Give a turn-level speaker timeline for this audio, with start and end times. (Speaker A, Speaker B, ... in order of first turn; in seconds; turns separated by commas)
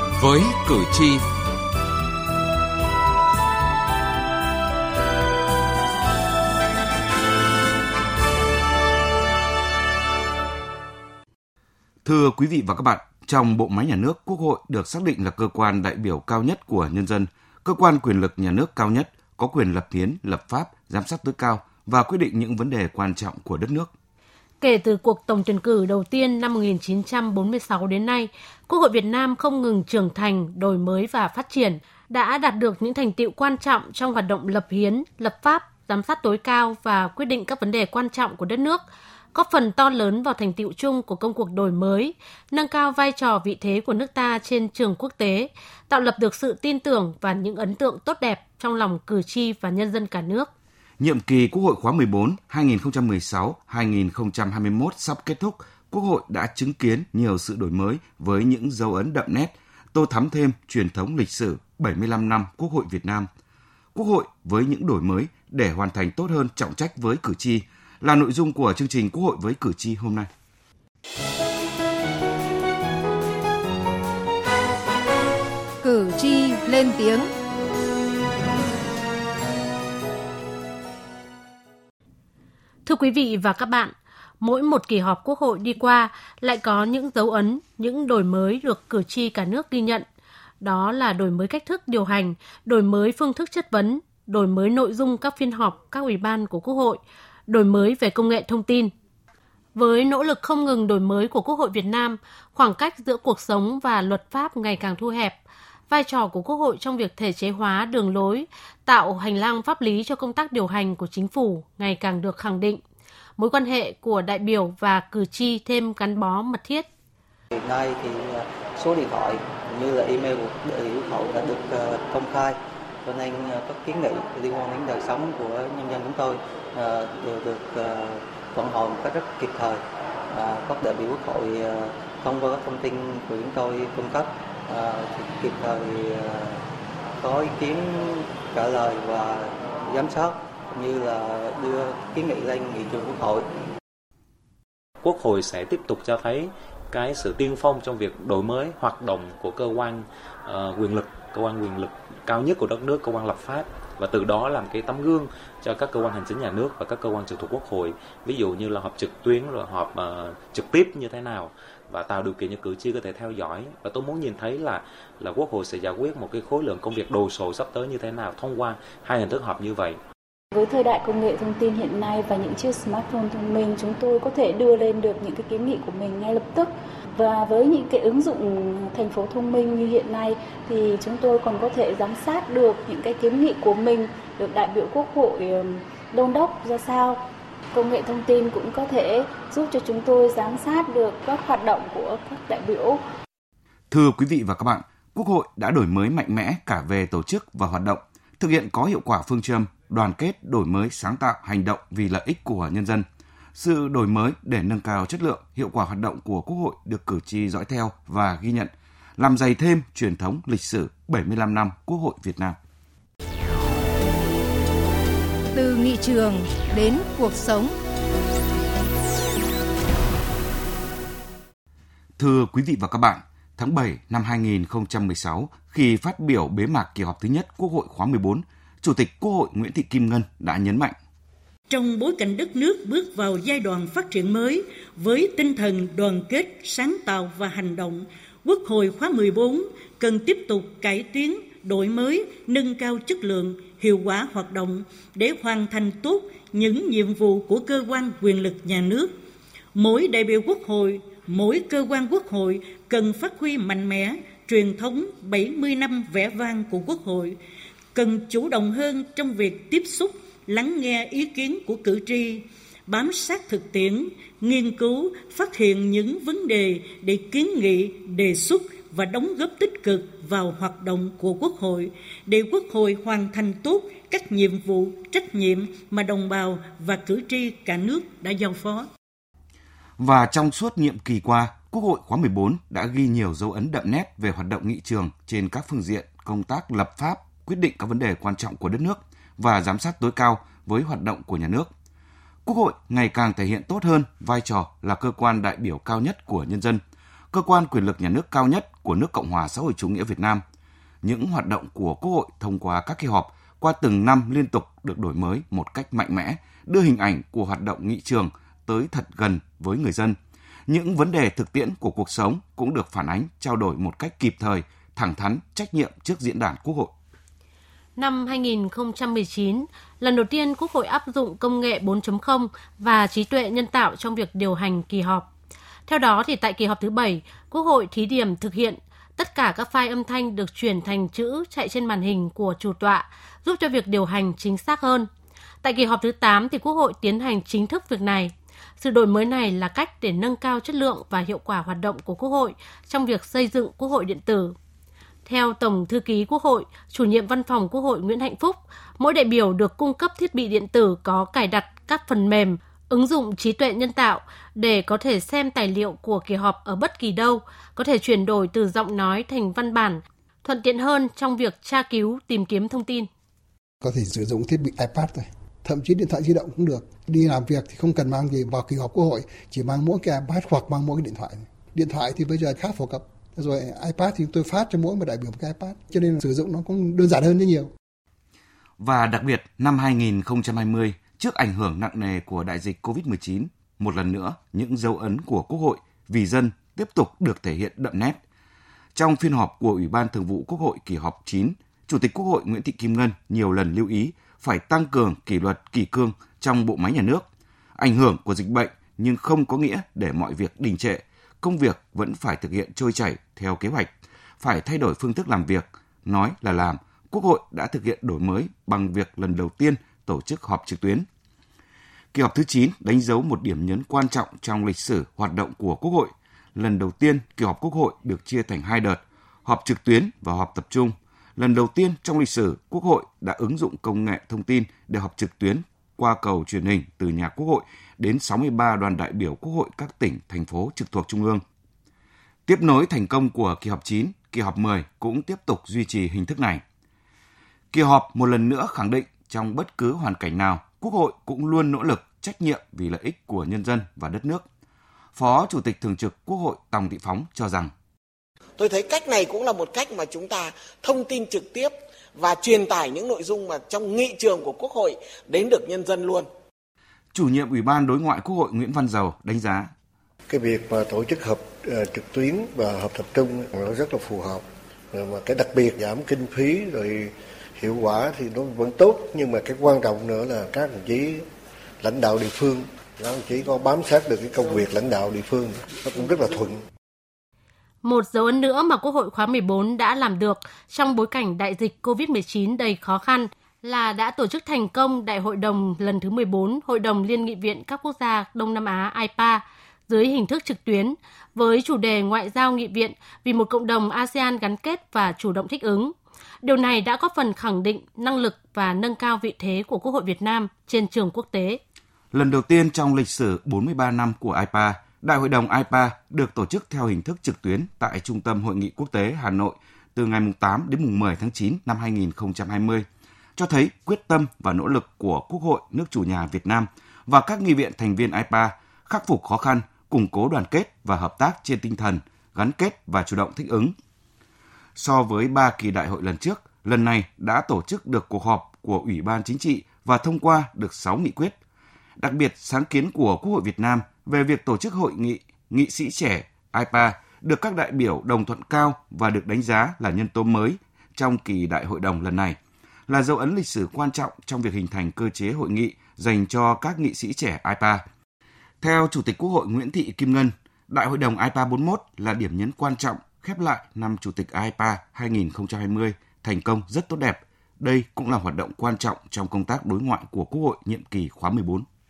Speaker A: 12.0-23.9, Speaker B: 24.6-50.5, Speaker A: 51.0-63.3, Speaker A: 63.9-70.3, Speaker C: 75.8-77.3, Speaker B: 82.8-90.0, Speaker B: 90.6-98.9, Speaker B: 99.7-112.8, Speaker B: 113.4-116.8, Speaker D: 117.5-136.6, Speaker D: 137.2-143.5, Speaker E: 145.0-170.0, Speaker F: 170.5-193.0, Speaker A: 193.9-203.0, Speaker A: 203.6-212.6, Speaker C: 215.5-217.7, Speaker A: 222.2-230.9, Speaker G: 231.7-249.1, Speaker G: 249.7-257.4, Speaker G: 257.9-278.8, Speaker A: 280.0-291.7, Speaker A: 292.4-296.8, Speaker A: 297.3-300.4, Speaker A: 301.0-310.2, Speaker A: 310.7-316.9, Speaker B: 318.0-325.3, Speaker B: 325.9-335.1, Speaker B: 335.6-344.5, Speaker B: 345.2-363.1, Speaker H: 363.8-377.7, Speaker A: 378.8-388.2, Speaker A: 388.9-397.2, Speaker A: 397.8-403.9, Speaker A: 404.4-411.1, Speaker A: 412.1-431.4, Speaker A: 432.5-436.6, Speaker A: 437.7-444.4, Speaker A: 445.1-447.7, Speaker I: 448.6-456.2, Speaker A: 457.1-459.7, Speaker J: 460.3-471.2, Speaker J: 471.8-476.6, Speaker B: 477.8-501.6, Speaker A: 502.1-512.8, Speaker A: 513.4-523.7, Speaker A: 524.8-531.3, Speaker A: 532.0-542.4, Speaker A: 542.9-547.8, Speaker A: 548.6-561.6